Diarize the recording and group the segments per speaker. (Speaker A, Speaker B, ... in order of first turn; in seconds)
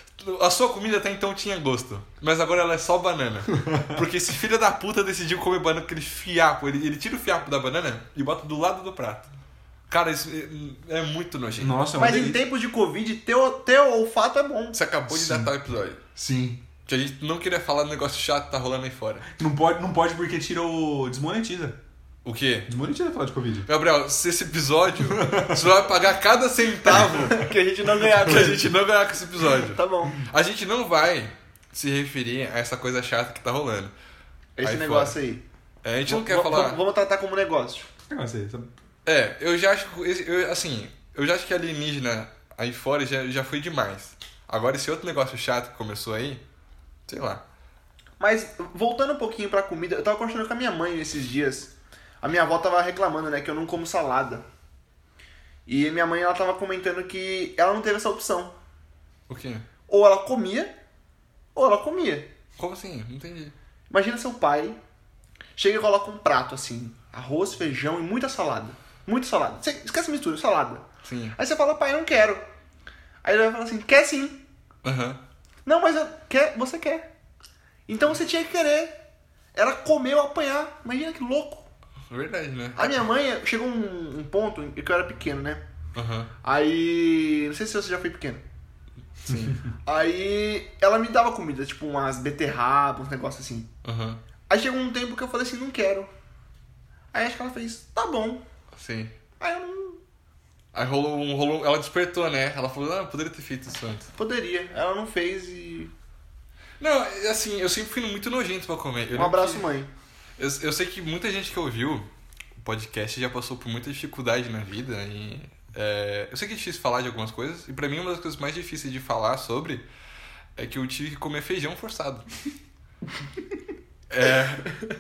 Speaker A: 0.2-9.3, 9.9-11.7, 14.7-16.0, 16.9-19.2, 22.2-22.7, 23.7-27.5, 28.1-33.9, 34.6-35.2, 35.8-36.8, 39.1-46.4, 47.1-47.4, 59.3-59.6, 62.6-63.5, 71.0-71.4, 74.8-75.2, 82.1-83.0, 86.0-86.3, 89.2-89.6, 93.8-94.2, 98.7-99.1, 100.7-104.1, 106.8-109.7, 110.4-112.1, 112.6-119.8, 120.6-122.3, 124.1-124.7
Speaker B: 3.7-4.0, 11.6-12.4, 15.1-15.5, 16.2-16.6, 19.3-21.8, 22.7-23.7, 25.1-25.7, 38.1-38.7
Speaker C: 12.0-14.8, 27.1-28.7, 29.6-30.2, 34.6-35.4, 36.1-37.9, 48.2-54.5, 55.7-58.6, 59.9-60.7, 61.5-62.3, 63.9-64.8, 65.6-70.8, 71.4-72.4, 73.2-74.4, 75.7-77.1, 77.9-79.0, 79.5-81.7, 82.8-85.6, 86.4-88.4, 89.8-93.7, 94.5-96.1, 97.1-98.4, 99.4-100.0, 104.2-105.9, 109.2-109.9